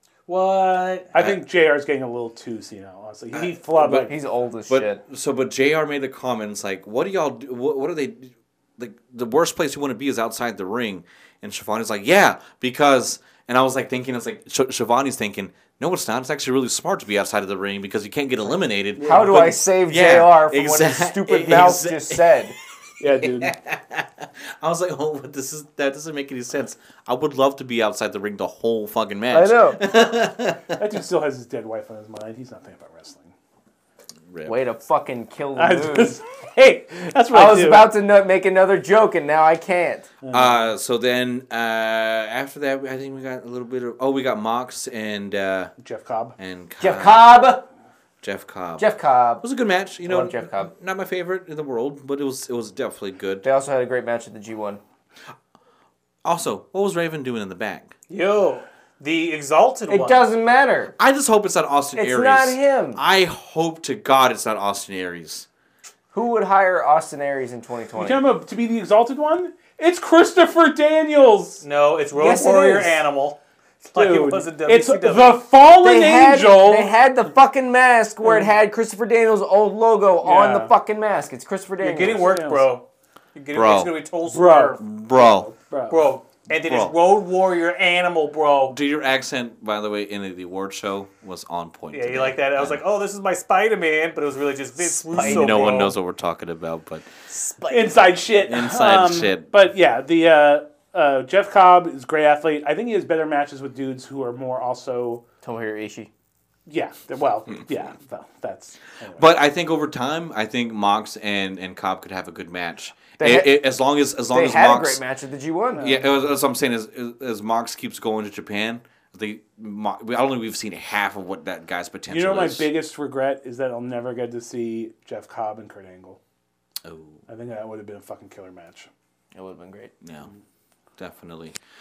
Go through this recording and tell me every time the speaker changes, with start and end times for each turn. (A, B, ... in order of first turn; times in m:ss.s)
0:00.3-0:01.1 A
0:01.1-0:04.1 B
0:03.8-0:04.1 C
0:03.8-0:05.0 D
0:04.7-0:22.4 C
0:19.0-0:19.5 B
0:19.0-0:22.6 D
0:23.0-0:23.5 B
0:23.2-0:30.8 C
0:29.3-0:29.8 D
0:30.8-0:33.3 B
0:34.3-0:34.6 C
0:34.4-0:36.2 D
0:35.6-0:37.9 B
0:37.3-0:40.1 D
0:40.2-0:40.7 B
0:40.3-0:45.7 C
0:45.8-0:46.4 B
0:46.4-0:47.3 C
0:46.8-0:47.6 D
0:48.2-0:53.5 C
0:48.8-0:49.4 D
0:50.0-0:50.7 D
0:53.4-0:54.8 D
0:56.2-0:57.9 C
0:58.1-1:00.3 A
0:59.9-1:01.0 D
1:01.0-1:05.5 C
1:02.0-1:03.0 D
1:06.1-1:08.2 D
1:08.0-1:11.6 B
1:11.6-1:15.4 A
1:12.2-1:13.0 D
1:14.0-1:16.9 B
1:15.8-1:22.3 D
1:18.2-1:18.5 B
1:20.2-1:20.7 B
1:21.8-1:28.8 A
1:22.2-1:22.7 B
1:23.5-1:24.0 C
1:24.3-1:24.8 B
1:24.8-1:25.5 C
1:25.5-1:26.1 B
1:26.7-1:26.9 C
1:28.7-1:32.8 C
1:31.9-1:36.0 A
1:35.1-1:35.9 D
1:35.1-1:37.1 C
1:37.4-1:37.7 D
1:37.6-1:37.8 A
1:37.7-1:45.2 B
1:38.5-1:39.5 C
1:45.4-1:46.1 D
1:46.7-1:49.2 B
1:49.2-1:55.0 C
1:53.2-1:53.5 D
1:54.3-1:55.9 D
1:55.8-1:56.1 B
1:55.8-2:02.7 C
2:02.1-2:06.2 B
2:06.8-2:07.2 C
2:07.3-2:08.9 B
2:09.3-2:09.9 D
2:10.0-2:10.3 C
2:11.0-2:11.6 C